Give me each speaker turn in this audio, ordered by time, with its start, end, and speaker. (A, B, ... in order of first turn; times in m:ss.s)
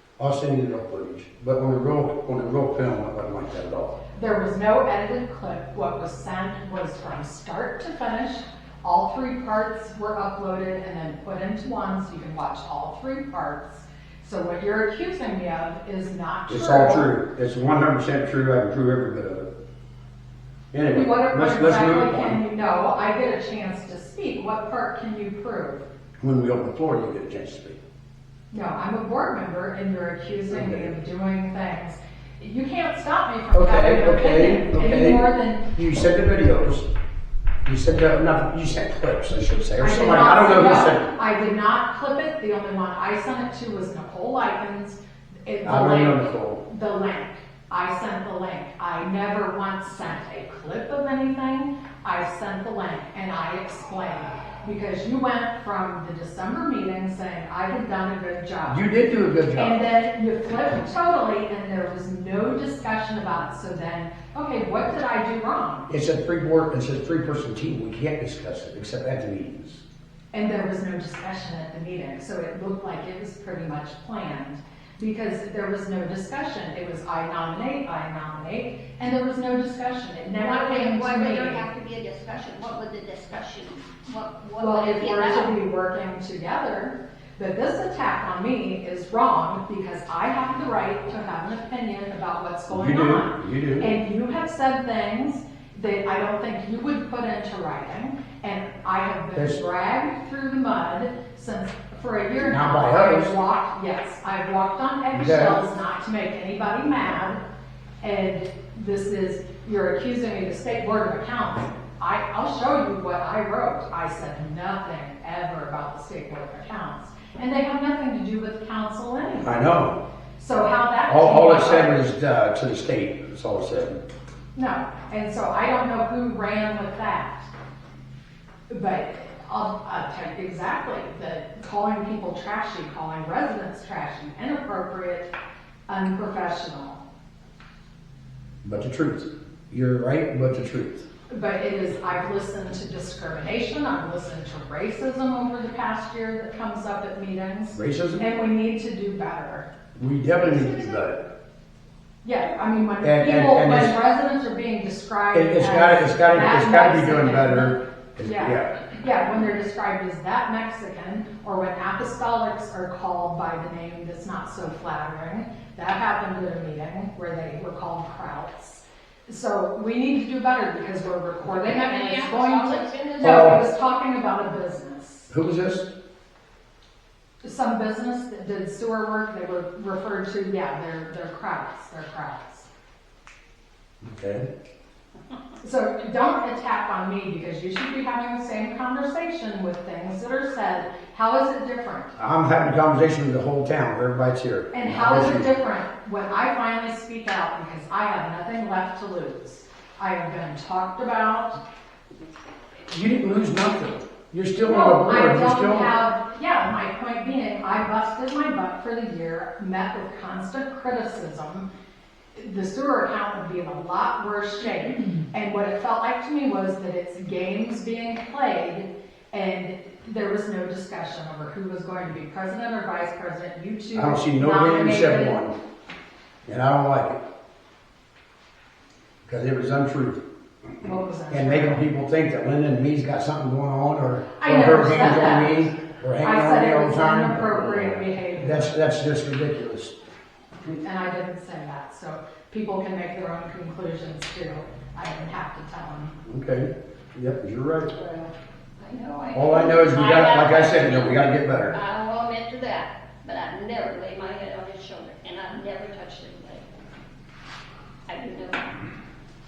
0:00.2-0:04.0 A
0:04.1-0:17.2 B
0:16.5-0:19.5 A
0:20.7-0:22.4 A
0:20.9-0:25.8 B
0:26.2-0:27.8 A
0:28.5-0:35.7 B
0:30.5-0:30.9 A
0:33.5-0:36.9 A
0:37.6-0:41.1 A
0:39.8-0:58.9 B
0:45.6-0:46.6 A
0:58.7-0:59.8 A
0:59.6-1:05.9 B
1:05.9-1:09.8 A
1:10.3-1:21.6 B
1:20.4-1:25.6 C
1:24.6-1:47.4 B
1:32.7-1:33.9 A
1:39.3-1:39.6 A
1:42.4-1:43.3 A
1:45.1-1:45.6 A
1:48.0-1:59.7 B
1:59.4-2:00.0 A
2:00.4-2:02.0 B
2:01.1-2:04.0 A
2:04.6-2:07.5 B
2:08.7-2:15.3 B
2:15.9-2:17.0 B
2:18.6-2:21.0 A
2:21.3-2:29.7 B
2:27.7-2:28.2 A
2:30.0-2:31.2 A
2:30.4-2:31.0 B
2:32.2-2:55.3 B
2:33.0-2:34.0 A
2:35.3-2:38.8 A
2:51.4-2:53.6 C
2:53.2-2:53.6 A
2:55.3-2:55.9 A
2:57.4-3:02.6 B
3:04.0-3:04.5 A
3:05.6-3:12.1 B
3:12.2-3:15.6 A
3:14.7-3:21.6 B
3:22.9-3:25.9 A
3:24.6-3:31.7 B
3:32.4-3:45.4 B
3:43.9-3:45.6 A
3:46.4-3:47.2 A
3:49.2-3:50.2 A
3:50.8-3:51.8 B
3:51.3-3:59.9 A
3:54.4-3:55.6 B
3:56.2-3:58.8 B
4:00.7-4:06.2 B
4:06.2-4:08.0 A
4:07.9-4:16.6 C
4:09.3-4:11.8 A
4:18.1-4:18.7 C